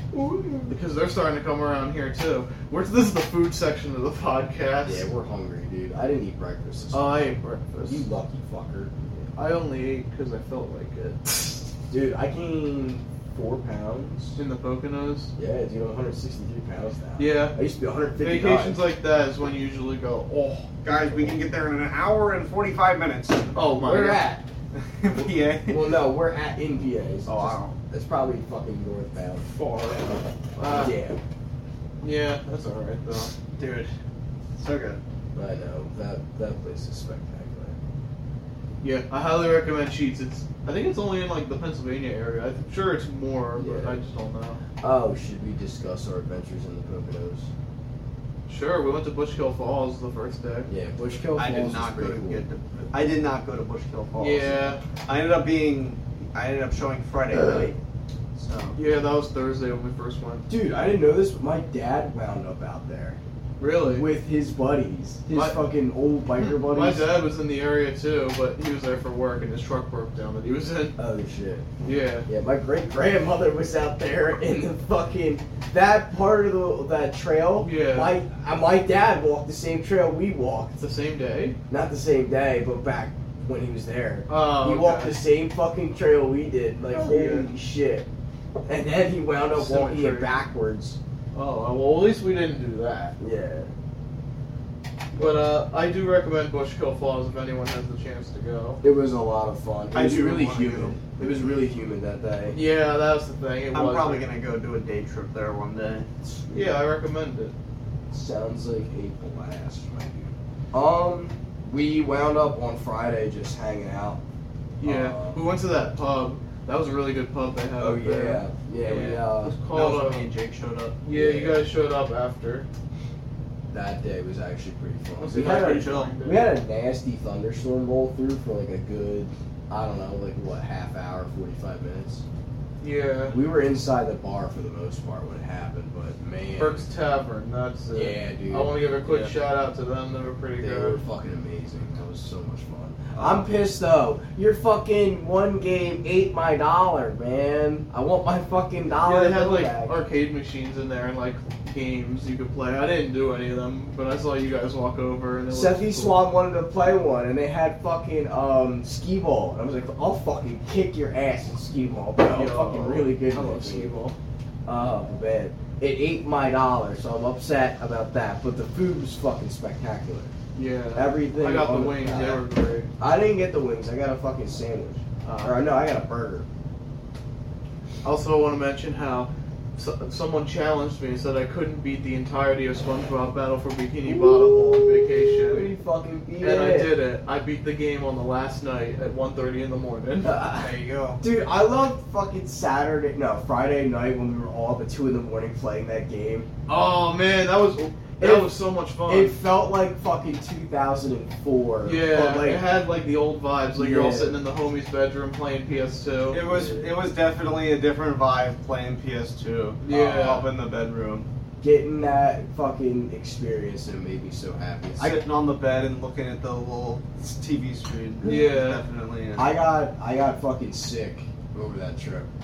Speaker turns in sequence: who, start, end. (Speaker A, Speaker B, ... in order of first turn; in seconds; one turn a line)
Speaker A: 0.1-0.7
Speaker B: 0.7-5.1
Speaker A: 4.8-7.2
Speaker B: 6.9-8.1
Speaker A: 7.9-8.9
Speaker B: 9.4-11.7
Speaker A: 11.9-14.4
Speaker B: 14.4-15.3
Speaker A: 15.4-18.8
Speaker B: 17.2-17.6
Speaker B: 18.2-20.7
Speaker C: 20.8-23.5
Speaker B: 23.5-24.3
Speaker A: 23.8-24.4
Speaker C: 24.8-25.9
Speaker A: 25.2-31.2
Speaker C: 27.3-27.8
Speaker B: 30.6-31.0
Speaker B: 32.0-33.3
Speaker C: 33.6-33.9
Speaker C: 34.6-35.0
Speaker A: 35.4-37.8
Speaker B: 38.8-44.6
Speaker A: 43.6-44.0
Speaker A: 44.8-47.5
Speaker B: 48.5-50.7
Speaker A: 50.7-52.5
Speaker C: 51.4-57.7
Speaker B: 54.2-54.8
Speaker A: 57.4-57.7
Speaker C: 58.4-58.8
Speaker B: 58.8-60.5
Speaker A: 60.5-63.2
Speaker B: 63.6-64.1
Speaker A: 63.9-67.1
Speaker B: 65.3-65.6
Speaker B: 66.4-71.0
Speaker A: 71.0-71.7
Speaker B: 71.8-72.3
Speaker A: 72.3-80.8
Speaker B: 77.6-78.2
Speaker B: 80.8-81.6
Speaker A: 81.7-88.1
Speaker B: 84.3-85.2
Speaker B: 86.9-87.5
Speaker A: 88.7-91.0
Speaker B: 89.5-90.3
Speaker B: 91.3-93.2
Speaker A: 93.2-93.7
Speaker B: 95.2-98.8
Speaker A: 98.8-102.6
Speaker C: 99.9-101.4
Speaker B: 102.5-104.3
Speaker C: 103.7-106.1
Speaker A: 106.2-106.8
Speaker B: 106.5-107.5
Speaker A: 108.1-114.2
Speaker B: 114.8-120.3
Speaker A: 114.8-115.5
Speaker A: 117.8-119.6
Speaker C: 119.5-121.0
Speaker B: 121.0-122.7
Speaker A: 121.1-121.7
Speaker A: 123.7-132.2
Speaker B: 125.2-126.5
Speaker B: 132.8-133.4
Speaker A: 133.3-136.8
Speaker B: 136.6-141.0
Speaker A: 137.9-138.8
Speaker C: 139.0-139.3
Speaker A: 140.6-150.0
Speaker C: 143.2-143.5
Speaker B: 149.0-156.2
Speaker A: 155.5-163.9
Speaker B: 162.3-164.2
Speaker A: 164.7-170.3
Speaker B: 170.6-172.9
Speaker A: 170.9-172.4
Speaker A: 173.0-176.5
Speaker B: 175.2-175.6
Speaker B: 178.0-185.7
Speaker A: 184.0-187.0
Speaker B: 186.4-190.3
Speaker A: 190.2-196.5
Speaker C: 190.6-191.2
Speaker B: 196.7-199.4
Speaker A: 198.2-202.7
Speaker B: 201.8-206.4
Speaker A: 203.8-204.4
Speaker C: 206.3-211.3
Speaker A: 206.4-206.9
Speaker B: 209.8-210.5
Speaker A: 211.6-215.2
Speaker C: 215.0-219.5
Speaker A: 218.2-218.5
Speaker B: 218.2-218.8
Speaker A: 219.4-222.3